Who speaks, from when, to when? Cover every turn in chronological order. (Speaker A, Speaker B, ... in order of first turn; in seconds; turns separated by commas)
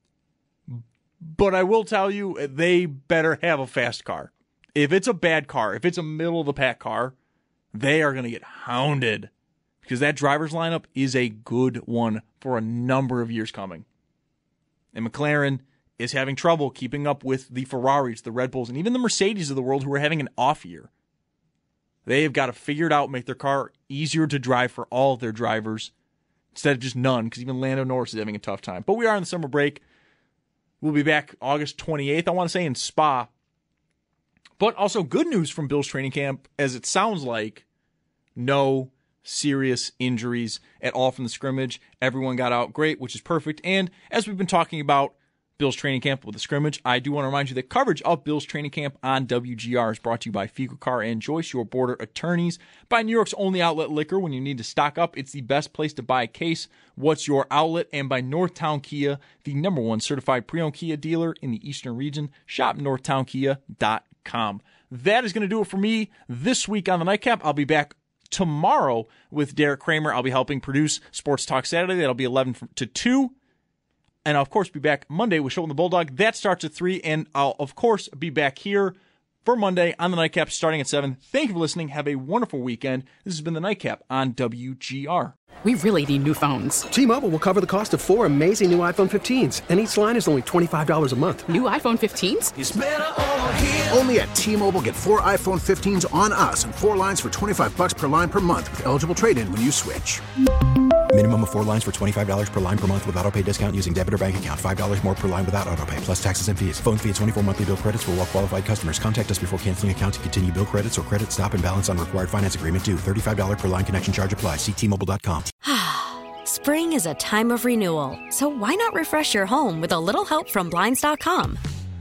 Speaker A: 0.7-7.2, Speaker A: 7.7-9.3, Speaker A: 9.8-13.8, Speaker A: 14.9-20.9, Speaker A: 22.1-25.9, Speaker A: 26.5-29.8, Speaker A: 30.8-33.3, Speaker A: 34.6-37.6, Speaker A: 38.4-73.3, Speaker A: 74.2-85.4, Speaker B: 85.6-86.9, Speaker C: 86.9-91.5, Speaker B: 91.5-92.5, Speaker D: 92.6-100.2, Speaker E: 101.1-115.5, Speaker F: 115.6-121.6